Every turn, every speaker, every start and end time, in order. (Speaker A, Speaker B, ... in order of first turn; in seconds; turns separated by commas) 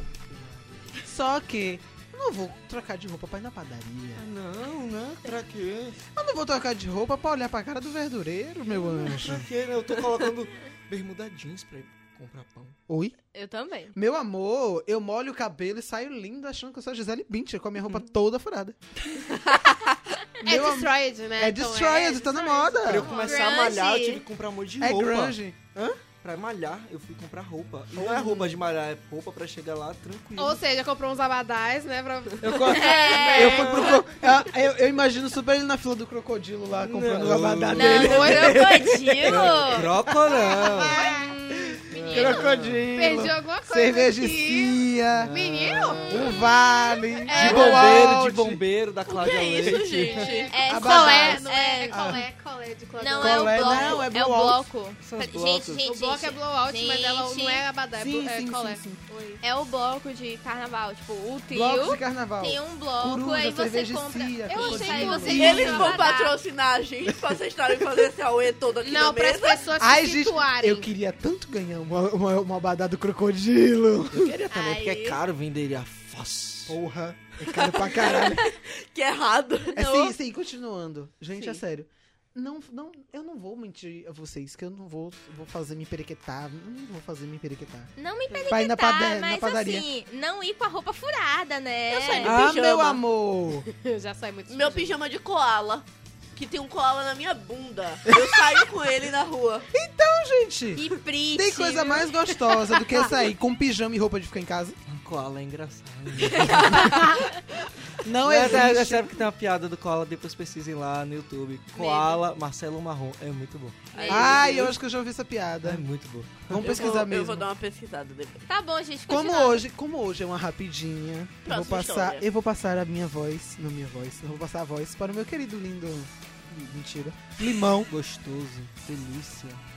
Speaker A: 0.3-1.0, Speaker B: 1.1-4.2, Speaker A: 4.2-6.0, Speaker B: 6.1-9.5, Speaker A: 8.7-12.8, Speaker B: 12.9-13.2, Speaker C: 13.3-13.9, Speaker B: 13.9-18.9, Speaker C: 19.3-20.0, Speaker B: 20.4-23.1, Speaker D: 20.4-23.6, Speaker A: 22.9-25.4, Speaker C: 23.1-24.2, Speaker B: 24.8-26.0, Speaker A: 26.1-30.6, Speaker B: 27.9-28.5, Speaker D: 30.4-34.0, Speaker B: 32.4-39.6, Speaker C: 32.6-33.9, Speaker E: 32.7-34.0, Speaker A: 33.4-34.0, Speaker A: 36.8-38.6, Speaker C: 37.7-39.9, Speaker D: 38.0-38.4, Speaker A: 39.2-41.1, Speaker D: 40.2-41.3, Speaker B: 40.4-40.8, Speaker C: 40.8-42.5, Speaker A: 41.9-42.9, Speaker B: 42.0-48.6, Speaker D: 42.9-46.4, Speaker A: 45.1-46.4, Speaker C: 47.3-47.6, Speaker E: 47.3-48.2, Speaker A: 47.4-50.4, Speaker D: 47.4-47.6, Speaker E: 49.1-50.5, Speaker D: 50.0-54.1, Speaker C: 50.4-52.2, Speaker B: 50.6-52.2, Speaker C: 53.0-57.7, Speaker B: 53.2-54.7, Speaker A: 53.6-54.0, Speaker A: 55.0-55.8, Speaker D: 55.8-59.4, Speaker B: 57.9-59.0, Speaker C: 59.4-66.3, Speaker B: 61.5-65.7, Speaker D: 64.5-66.0, Speaker E: 65.3-69.7, Speaker D: 68.8-70.9, Speaker B: 69.8-74.4, Speaker A: 74.1-76.8, Speaker C: 74.5-75.2, Speaker B: 76.7-78.5, Speaker E: 77.6-80.2, Speaker B: 79.8-87.9, Speaker C: 88.0-92.4, Speaker D: 88.3-88.6, Speaker B: 88.5-89.9, Speaker D: 91.9-92.2, Speaker E: 92.2-93.0, Speaker B: 92.2-93.7, Speaker D: 93.7-95.0, Speaker E: 94.5-99.7, Speaker B: 99.7-104.8, Speaker C: 100.8-103.0, Speaker A: 104.9-107.1, Speaker C: 106.2-107.4, Speaker D: 106.6-107.1, Speaker B: 108.0-109.2, Speaker A: 108.1-114.7, Speaker C: 111.7-112.2, Speaker E: 113.9-114.7, Speaker C: 113.9-114.4, Speaker B: 114.1-115.9, Speaker A: 115.6-116.8, Speaker B: 116.5-117.5, Speaker E: 116.5-118.5, Speaker C: 118.5-119.6, Speaker B: 119.1-127.9, Speaker E: 121.5-122.3, Speaker A: 127.9-129.6